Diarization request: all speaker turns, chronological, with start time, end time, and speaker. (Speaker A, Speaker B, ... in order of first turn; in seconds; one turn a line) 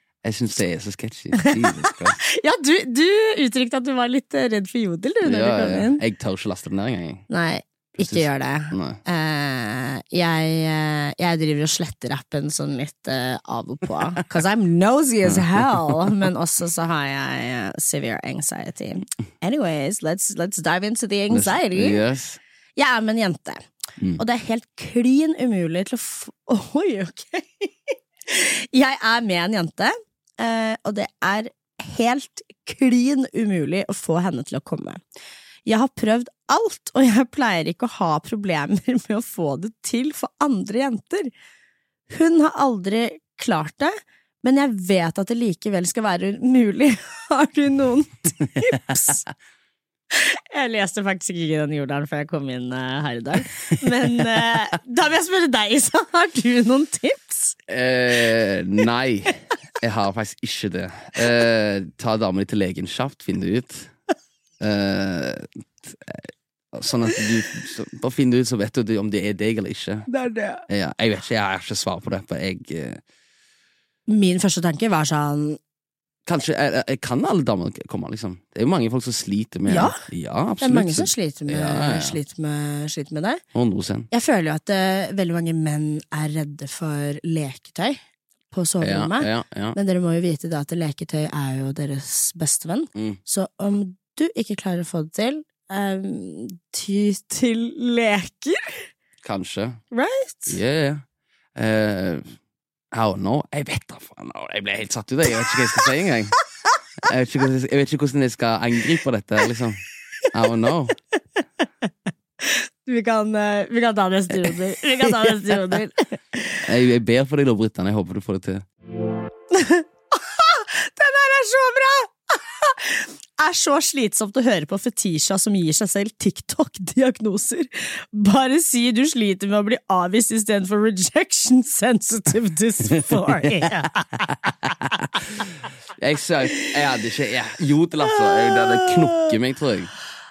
Speaker A: 0.2-2.2
Speaker B: 1.4-6.0
Speaker A: 5.2-7.2
Speaker B: 7.3-22.0
Speaker A: 8.0-9.0
Speaker A: 21.3-22.4
Speaker B: 22.8-23.6
Speaker B: 24.2-35.0
Speaker B: 35.7-41.3
Speaker B: 42.1-49.2
Speaker B: 50.1-57.6
Speaker A: 57.7-63.9
Speaker A: 64.6-70.1
Speaker B: 70.1-70.7
Speaker A: 70.7-73.0
Speaker B: 74.1-75.6
Speaker A: 76.3-82.2
Speaker B: 79.7-80.0
Speaker B: 80.6-83.4
Speaker A: 83.5-84.1
Speaker B: 84.1-88.0
Speaker B: 88.5-98.9
Speaker A: 88.8-89.8
Speaker A: 99.2-99.8
Speaker B: 99.9-100.6
Speaker A: 100.5-101.0
Speaker A: 101.6-102.3
Speaker A: 102.9-106.4
Speaker A: 107.0-109.8
Speaker A: 110.3-110.9
Speaker B: 112.4-116.6
Speaker A: 116.6-118.7
Speaker B: 119.5-134.4
Speaker A: 133.0-133.7
Speaker A: 134.7-135.0
Speaker A: 136.0-139.9
Speaker B: 138.0-139.3